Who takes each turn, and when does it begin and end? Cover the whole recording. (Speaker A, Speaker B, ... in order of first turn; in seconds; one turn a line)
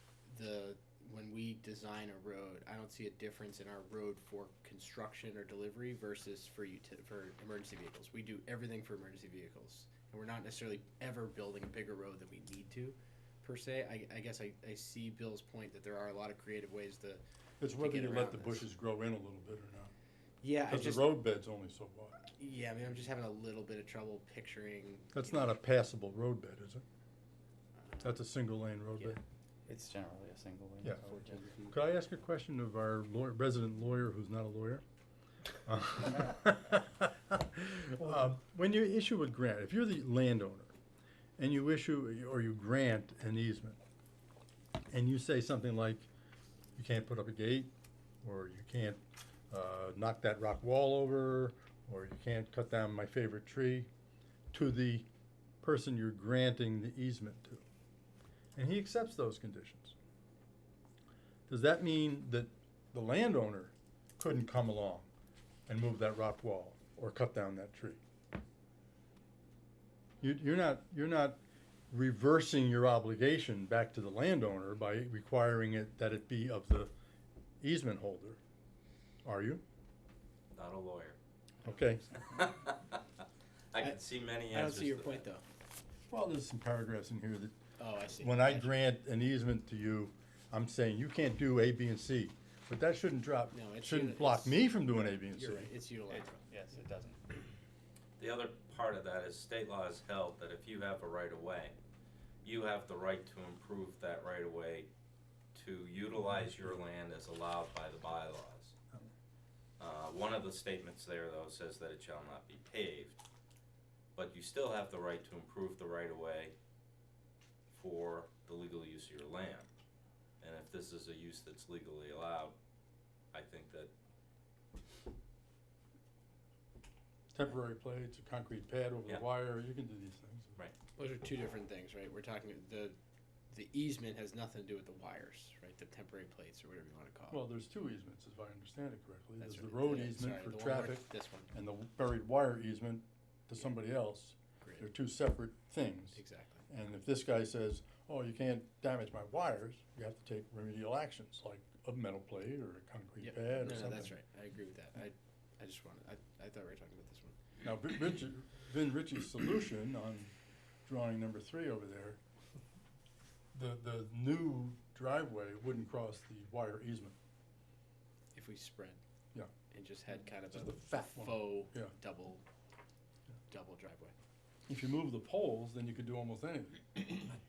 Speaker A: 0.3-17.2
Speaker B: 17.6-19.9
Speaker A: 17.8-18.7
Speaker A: 20.4-21.1
Speaker B: 20.7-22.2
Speaker A: 22.3-25.6
Speaker B: 25.1-26.8
Speaker A: 27.8-28.2
Speaker B: 28.0-29.2
Speaker C: 29.7-31.5
Speaker B: 30.8-31.1
Speaker A: 31.0-31.7
Speaker B: 31.6-34.8
Speaker B: 35.7-40.7
Speaker B: 41.4-43.8
Speaker B: 44.9-46.1
Speaker B: 46.8-47.7
Speaker B: 48.2-53.9
Speaker B: 54.5-55.1
Speaker B: 55.6-57.6
Speaker B: 58.5-60.0
Speaker B: 61.5-65.1
Speaker B: 65.7-68.0
Speaker B: 70.2-71.4
Speaker B: 71.9-76.9
Speaker B: 77.6-78.4
Speaker B: 79.2-79.6
Speaker D: 80.5-81.2
Speaker B: 81.6-82.0
Speaker A: 81.6-82.3
Speaker D: 82.3-83.0
Speaker D: 83.7-85.2
Speaker A: 84.5-85.4
Speaker B: 86.1-87.5
Speaker A: 87.8-88.8
Speaker B: 88.2-95.7
Speaker A: 93.5-96.4
Speaker C: 96.1-97.2
Speaker D: 98.2-101.8
Speaker D: 102.4-104.9
Speaker D: 105.5-108.8
Speaker D: 109.8-113.2
Speaker D: 114.1-116.5
Speaker D: 117.7-119.7
Speaker D: 120.4-122.5
Speaker D: 123.3-123.9
Speaker B: 127.3-130.6
Speaker A: 131.0-133.0
Speaker A: 133.5-137.4
Speaker B: 137.3-154.1
Speaker A: 139.4-141.5
Speaker A: 144.6-144.9
Speaker A: 146.1-146.7
Speaker A: 153.2-157.3
Speaker B: 157.6-160.3
Speaker B: 160.9-162.2
Speaker B: 163.5-167.2
Speaker A: 168.3-169.0
Speaker A: 169.7-172.4
Speaker B: 170.5-171.9
Speaker A: 173.5-174.1
Speaker B: 174.7-177.4